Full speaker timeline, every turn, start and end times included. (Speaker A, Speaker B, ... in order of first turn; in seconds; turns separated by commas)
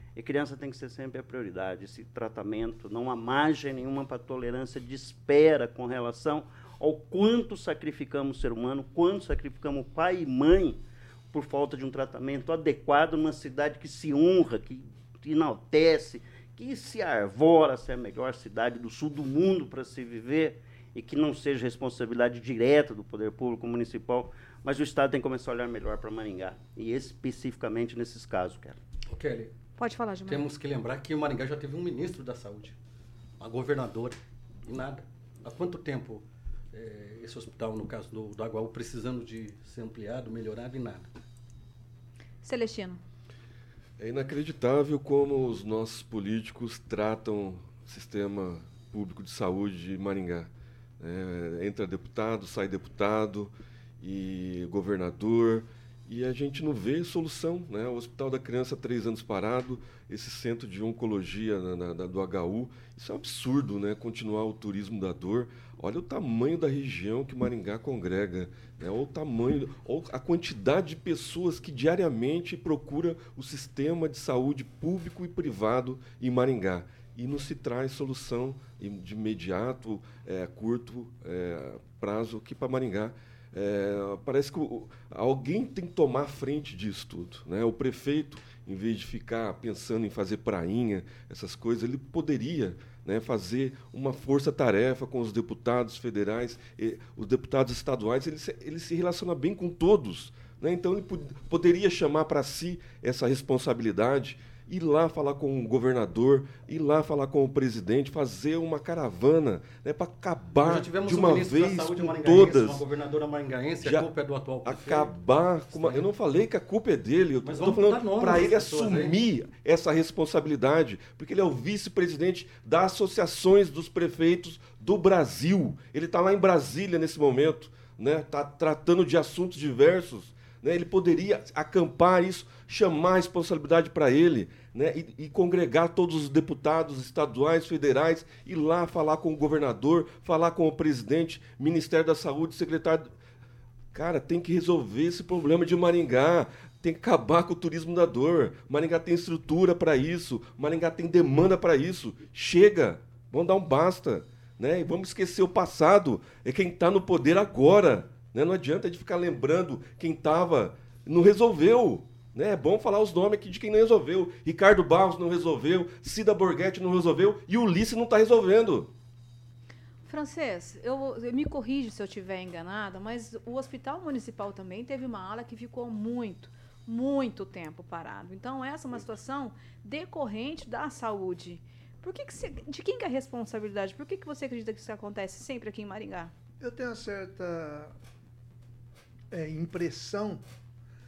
Speaker A: 0.1-28.8, Speaker B: 29.1-29.5, Speaker C: 29.8-30.5, Speaker B: 30.3-32.8, Speaker B: 33.4-41.1, Speaker C: 42.4-43.0, Speaker D: 44.0-112.8, Speaker B: 110.6-115.2, Speaker D: 113.8-114.1, Speaker D: 114.6-143.1, Speaker B: 115.7-116.1, Speaker B: 117.4-119.2, Speaker D: 143.9-168.9, Speaker C: 170.1-186.3, Speaker E: 186.6-187.9, Speaker E: 189.3-190.4